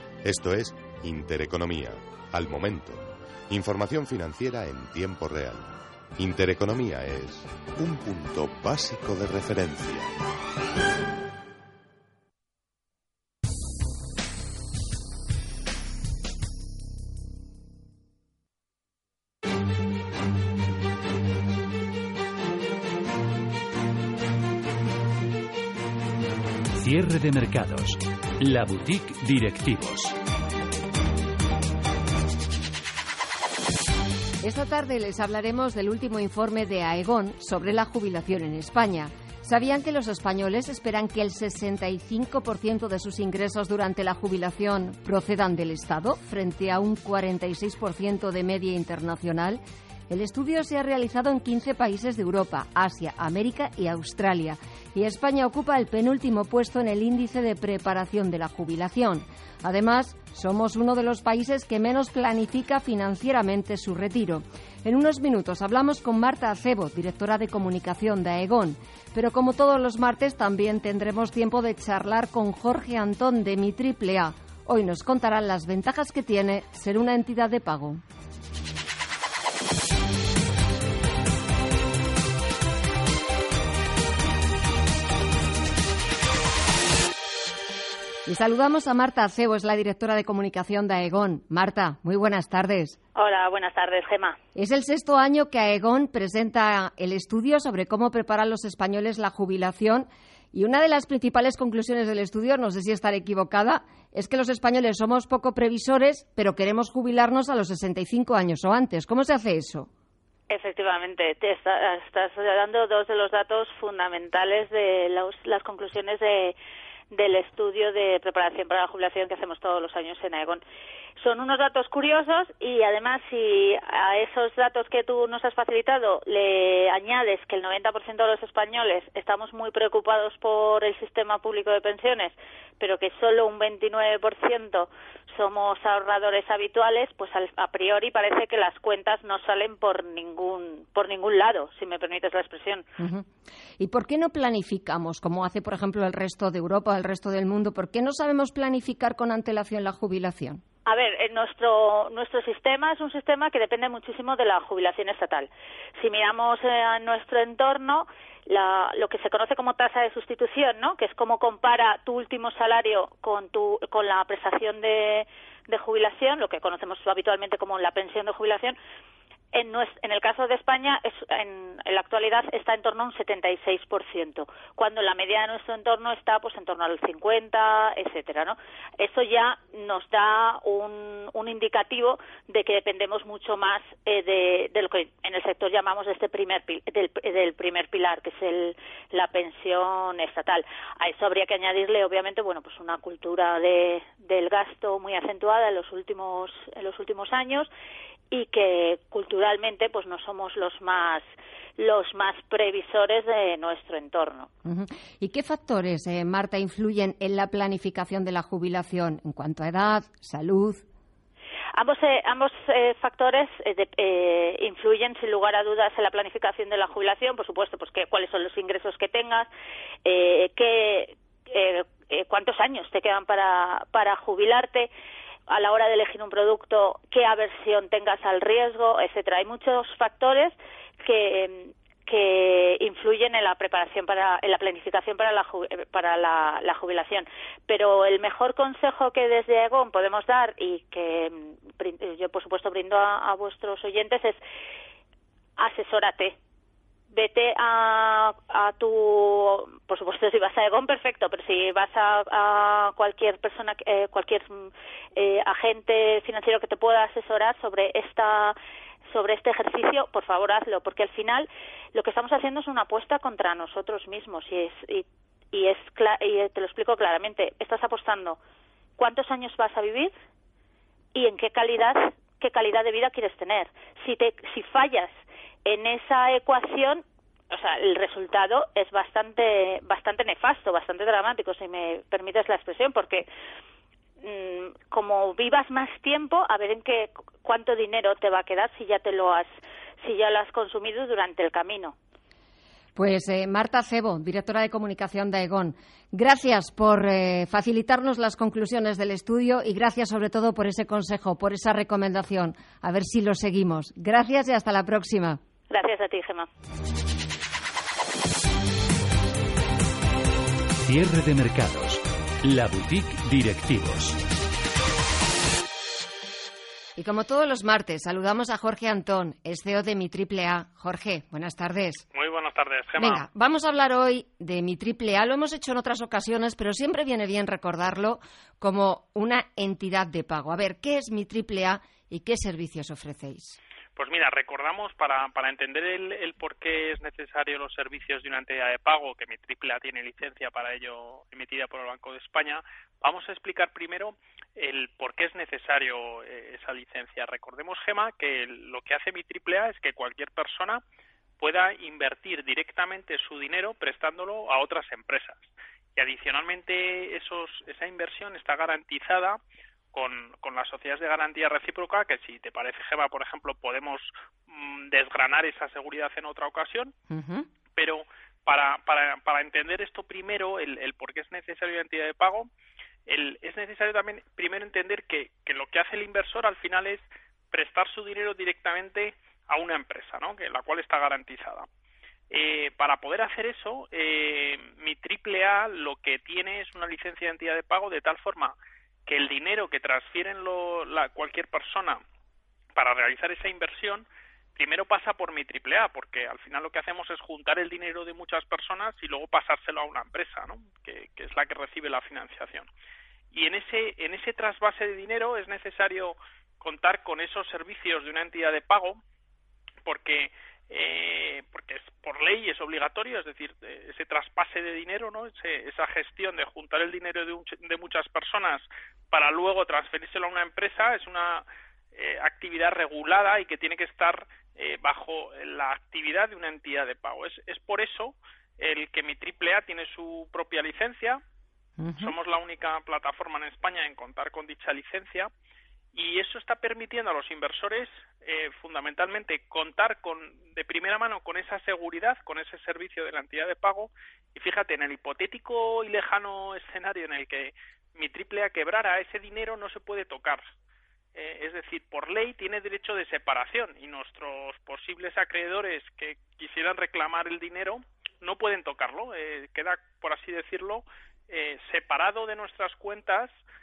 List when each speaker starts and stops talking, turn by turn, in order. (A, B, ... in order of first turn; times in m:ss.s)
0:00.2-0:10.1 A
0:26.8-0:30.1 B
0:34.4-1:18.0 C
1:28.3-1:33.0 C
1:33.2-1:34.4 D
1:34.6-1:49.9 C
1:50.5-1:56.6 D
1:57.1-2:00.6 D
2:01.2-2:22.8 D
2:23.0-2:23.2 C
2:23.8-2:30.6 C
2:30.8-2:48.8 D
2:49.5-3:17.7 D
3:18.3-3:21.2 D
3:21.8-3:24.5 D
3:24.6-3:30.8 C
3:31.8-3:39.5 D
3:40.0-3:44.9 D
3:45.5-4:04.4 D
4:05.6-4:06.3 D
4:07.1-4:18.6 D
4:19.1-4:28.4 D
4:29.0-4:30.1 D
4:31.1-4:43.3 D
4:44.2-4:49.5 D
4:50.0-4:51.9 D
4:53.0-5:05.4 C
5:05.7-5:06.5 D
5:10.8-5:14.2 B
5:17.0-5:22.0 C
5:22.1-5:23.2 E
5:23.0-5:33.6 C
5:34.0-5:50.8 E
5:51.4-5:59.4 E
5:59.9-6:06.9 E
6:07.1-6:07.5 C
6:07.8-6:12.5 E
6:13.1-6:21.7 E
6:22.3-6:28.5 E
6:29.1-6:32.0 E
6:32.8-6:42.7 E
6:43.3-6:49.0 E
6:49.8-7:11.2 E
7:11.8-7:12.1 C
7:12.0-7:15.3 E
7:15.9-7:30.5 E
7:31.1-7:43.3 E